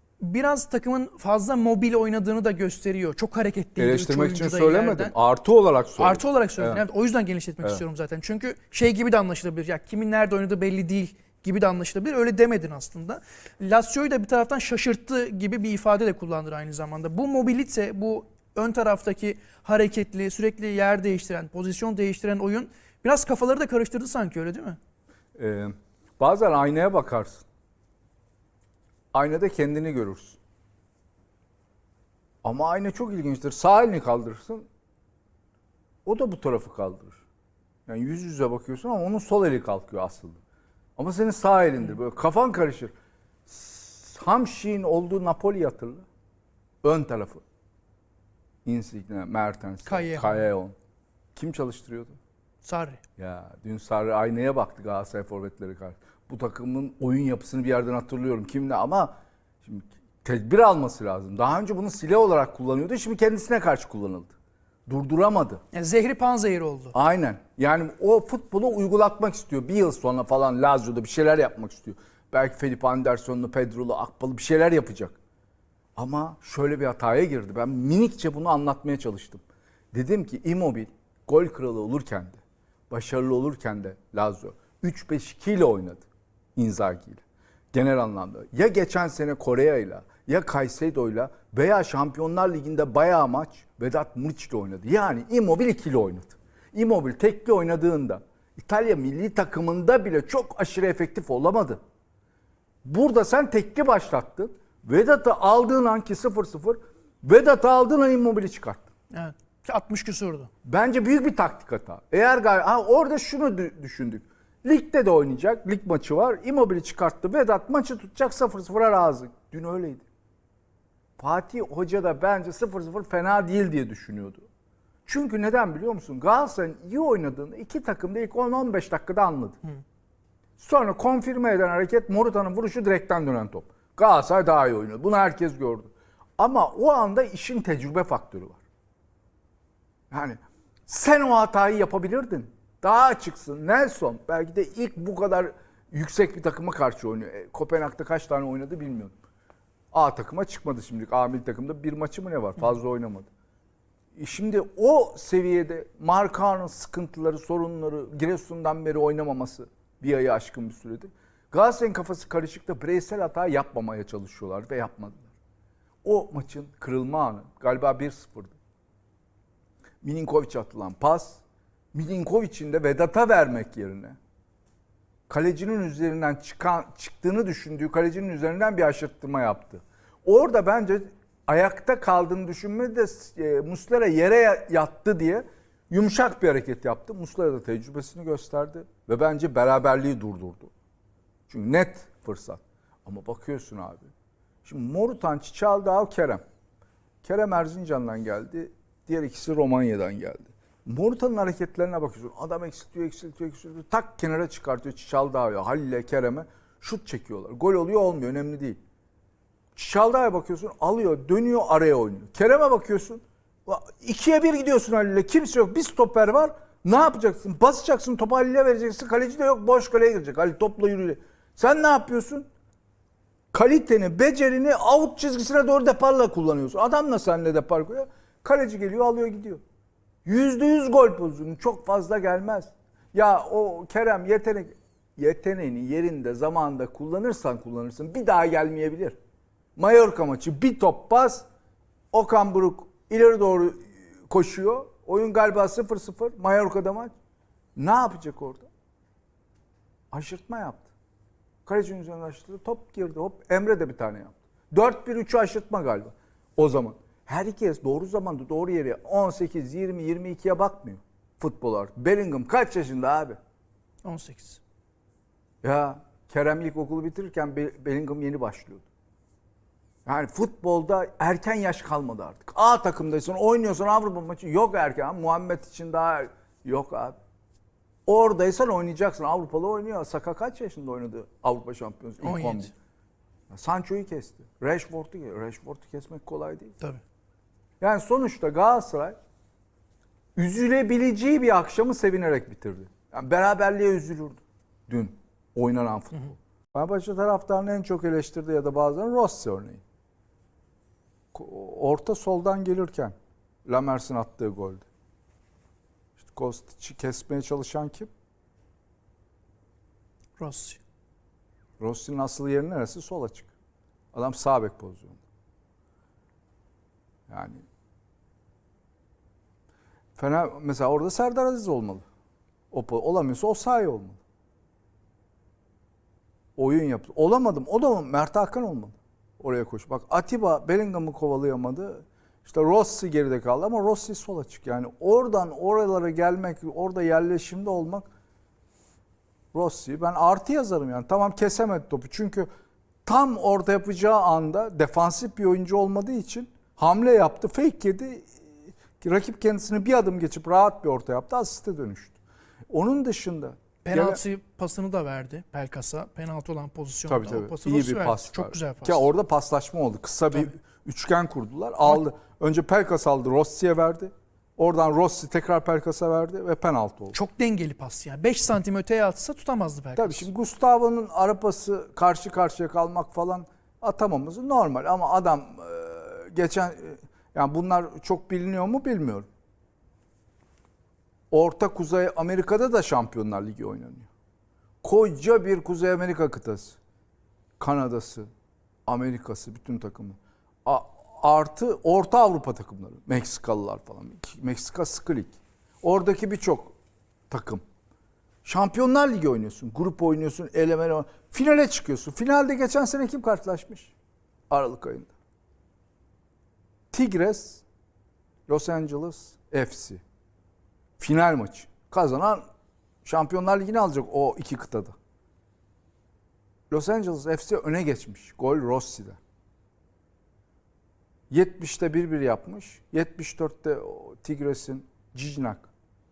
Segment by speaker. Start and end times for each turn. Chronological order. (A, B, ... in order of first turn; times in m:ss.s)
0:00.2-0:05.1 A
0:03.8-0:06.8 B
0:06.0-0:24.8 A
0:25.4-0:27.4 B
0:29.1-0:30.4 B
0:32.4-0:34.7 B
0:36.0-0:37.2 B
0:37.9-0:40.4 B
0:41.0-0:42.9 B
0:43.4-0:46.0 B
0:46.8-0:47.4 B
0:48.6-0:50.8 B
0:49.8-0:50.4 A
0:51.4-0:52.2 B
0:52.6-0:53.0 A
0:53.2-1:04.4 B
1:04.9-1:05.6 B
1:05.7-1:06.9 A
1:06.9-1:15.2 B
1:16.0-1:19.4 B
1:19.9-1:41.8 B
1:42.8-1:48.9 B
1:49.1-1:50.5 A
1:50.6-2:00.0 B
2:01.2-2:04.4 B
2:05.0-2:09.6 B
2:10.6-2:18.6 B
2:20.1-2:29.1 B
2:29.9-2:33.3 B
2:34.1-2:45.3 B
2:46.0-2:48.6 B
2:50.0-2:51.4 B
2:51.9-2:54.2 B
2:55.3-3:10.7 B
3:11.5-3:14.1 B
3:14.6-3:16.4 B
3:17.2-3:28.8 B
3:29.8-3:42.5 B
3:43.5-3:49.6 B
3:50.2-3:59.2 B
3:59.8-4:01.5 B
4:02.1-4:07.1 B
4:07.8-4:08.7 B
4:10.1-4:10.9 B
4:11.6-4:23.4 B
4:24.0-4:24.6 A
4:25.6-4:28.8 B
4:30.0-4:37.2 B
4:38.0-4:42.7 B
4:42.2-4:42.7 A
4:43.5-4:46.8 B
4:47.8-4:49.2 B
4:50.4-4:59.8 B
5:01.3-5:03.1 B
5:03.6-5:04.8 B
5:06.2-5:08.1 B
5:10.4-5:10.8 A
5:11.8-5:13.5 B
5:14.1-5:15.2 B
5:17.3-5:17.6 B
5:20.2-5:22.0 B
5:22.7-5:24.2 B
5:26.6-5:38.1 B
5:39.5-5:42.5 B
5:43.0-5:48.4 B
5:49.0-5:52.2 B
5:52.7-5:54.2 B
5:53.8-5:59.1 A
5:57.1-6:07.1 B
6:07.1-6:10.3 A
6:10.0-6:19.3 B
6:21.3-6:24.1 B
6:24.8-6:26.8 B
6:27.6-6:28.3 B
6:28.9-6:36.8 B
6:37.3-6:37.6 B
6:38.4-6:43.9 B
6:44.5-6:45.1 B
6:46.9-6:47.6 B
6:48.5-6:50.0 B
6:51.0-6:52.4 B
6:53.0-6:55.0 B
6:56.7-6:59.2 B
7:01.3-7:05.7 B